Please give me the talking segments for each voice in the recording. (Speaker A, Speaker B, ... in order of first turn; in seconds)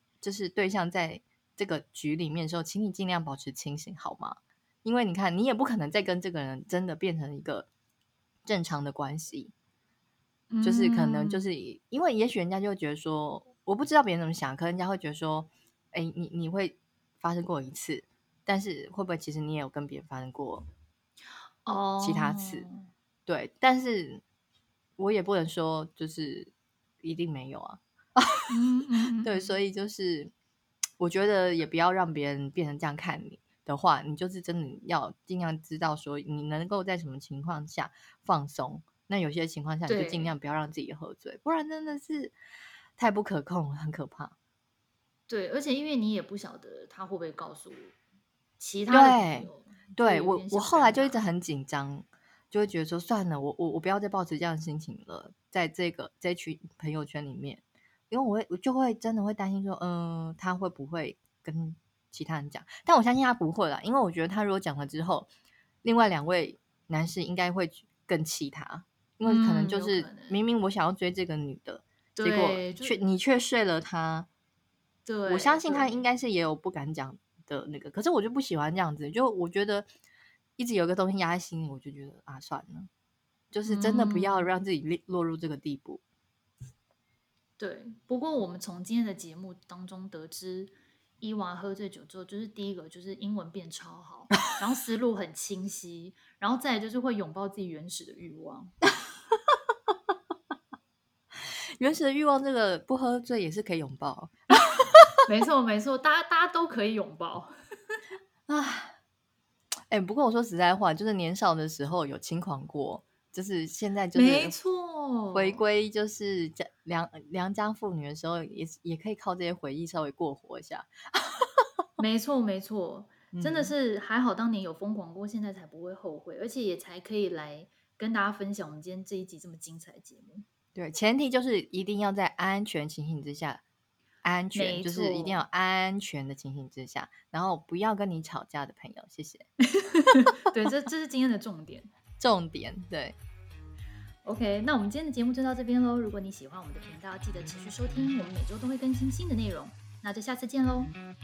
Speaker A: 0.2-7.7, 8.5-9.5, 10.6-20.7, 22.0-22.6, 23.3-24.2, 25.0-26.5, 27.0-28.5, 29.2-30.3, 31.0-42.4, 43.0-44.4, 48.9-65.3, 65.8-74.3, 75.3-79.9, 80.6-82.9, 83.5-86.0, 101.8-105.1, 108.5-108.9, 109.9-114.5, 115.3-121.7, 123.3-123.7, 130.8-133.6, 134.2-139.5, 142.2-143.2
Speaker B: 10.5-11.5, 21.7-22.9, 28.5-29.6, 39.9-40.3, 45.3-48.0, 48.6-51.2, 69.2-70.4, 72.2-73.0, 75.1-76.0, 83.7-84.5, 87.6-98.7, 105.2-107.5, 114.1-115.6, 122.0-130.5, 134.5-135.4, 139.7-141.9, 144.2-150.9